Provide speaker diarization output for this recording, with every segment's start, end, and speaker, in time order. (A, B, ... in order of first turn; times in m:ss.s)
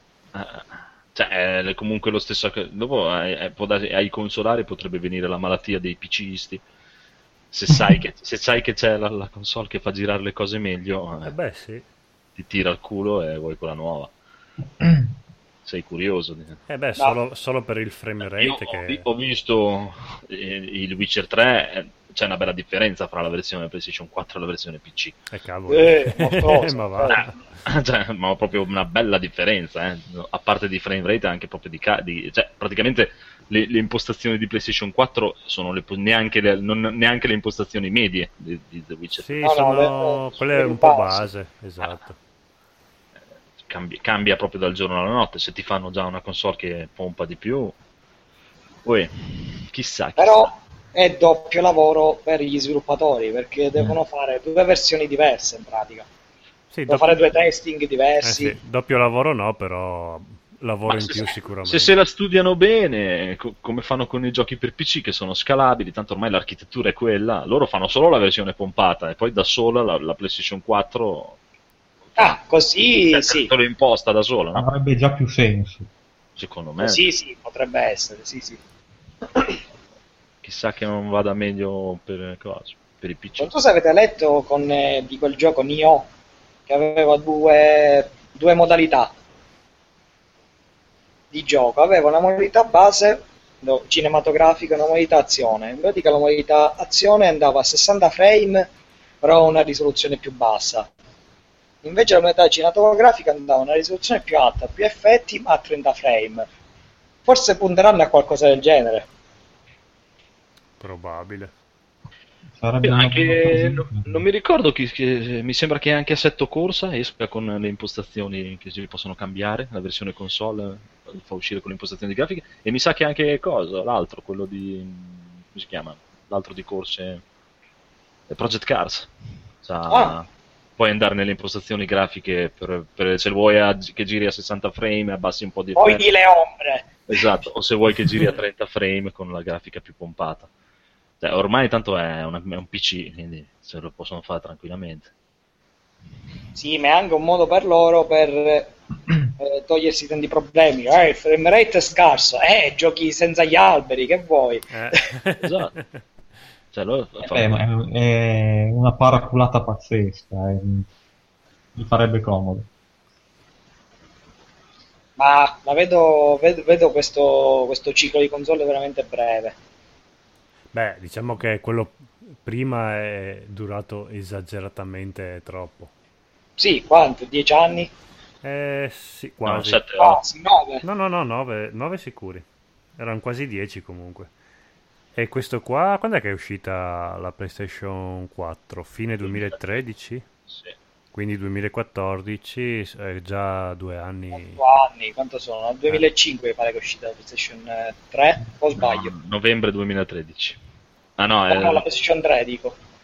0:00.3-0:06.6 A
0:07.5-0:11.3 A
0:11.2-0:11.8 B
0:12.4-0:14.1 A
0:14.8-0:15.1 C
0:15.6-0:16.6 A
0:16.7-0:19.0 B
0:18.4-0:25.2 A
0:25.3-0:27.6 B
0:25.7-0:27.2 D
0:27.1-0:39.4 A
0:39.2-0:42.2 B
0:39.4-0:41.3 D
0:43.6-0:47.7 A
0:48.8-0:50.5 A
0:50.2-0:56.1 D
0:56.7-0:57.3 B
0:56.9-0:58.6 D
0:58.2-1:01.9 B
1:00.9-1:11.4 A
1:12.1-1:12.4 A
1:12.2-1:13.5 D
1:13.1-1:14.6 A
1:14.6-1:15.9 C
1:16.4-1:17.0 A
1:16.8-1:18.6 D
1:20.4-1:23.5 A
1:23.4-1:26.1 D
1:26.7-1:29.1 D
1:31.3-1:38.7 D
1:39.2-1:40.9 D
1:41.8-1:46.5 D
1:47.2-1:49.1 D
1:50.8-1:51.5 B
1:52.5-1:54.2 C
1:52.8-2:07.2 A
2:08.3-2:09.1 A
2:09.6-2:10.3 A
2:09.9-2:10.2 D
2:10.8-2:16.1 A
2:15.8-2:17.0 D
2:17.1-2:20.5 A
2:21.2-2:25.1 A
2:26.5-2:28.7 D
2:29.4-2:34.7 D
2:34.7-2:36.0 B
2:35.4-2:35.7 A
2:36.7-2:37.6 A
2:37.2-2:40.9 C
2:41.8-2:42.7 C
2:45.2-2:49.6 D
2:50.7-2:55.9 B
2:56.6-2:57.9 D
2:58.4-2:59.8 B
2:59.4-3:00.2 A
3:00.0-3:00.8 D
3:00.8-3:02.4 B
3:03.0-3:04.3 B
3:05.2-3:10.2 B
3:09.2-3:09.6 A
3:10.5-3:10.7 A
3:11.1-3:14.6 B
3:14.3-3:19.1 D
3:18.7-3:20.6 A
3:21.2-3:21.8 A
3:21.5-3:22.8 D